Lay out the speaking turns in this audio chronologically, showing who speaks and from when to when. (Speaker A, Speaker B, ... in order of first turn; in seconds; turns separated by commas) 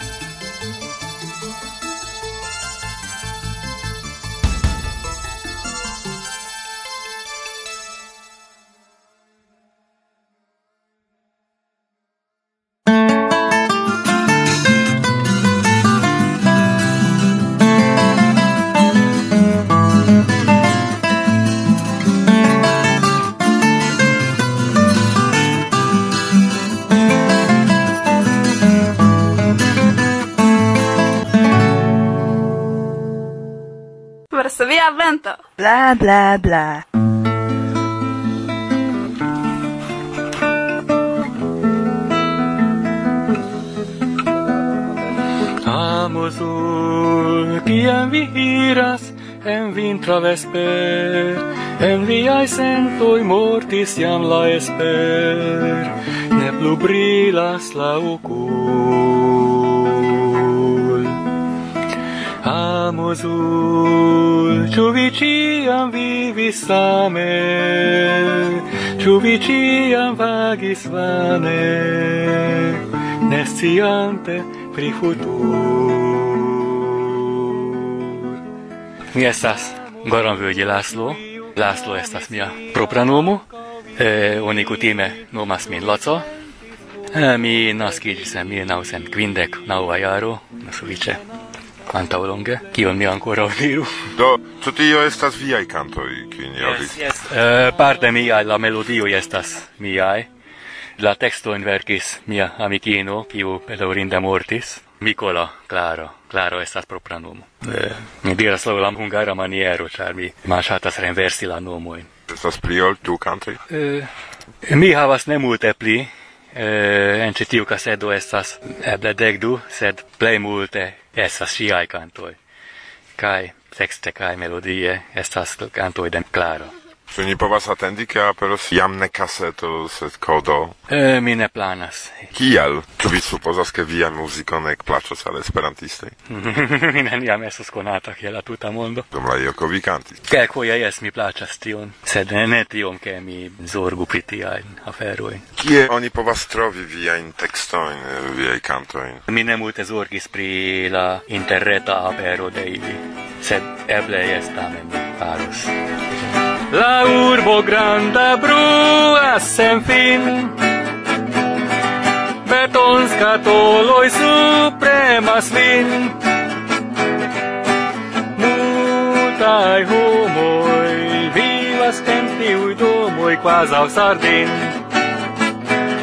Speaker A: 34.3-36.8, Speaker B: 45.6-61.2, Speaker B: 62.4-77.6, Speaker B: 79.1-86.2, Speaker B: 87.1-91.2, Speaker B: 91.9-93.9, Speaker C: 94.2-97.0, Speaker B: 96.6-100.3, Speaker B: 101.0-112.1, Speaker C: 112.3-113.6, Speaker B: 113.7-114.1, Speaker B: 114.6-122.4, Speaker B: 123.2-126.7, Speaker C: 127.1-130.8, Speaker B: 130.9-132.3, Speaker C: 132.3-136.1, Speaker B: 136.3-139.1, Speaker C: 139.1-140.2, Speaker B: 140.3-145.4, Speaker C: 145.6-149.2, Speaker B: 149.3-155.7, Speaker B: 156.7-160.6, Speaker B: 162.4-166.2, Speaker B: 168.3-174.8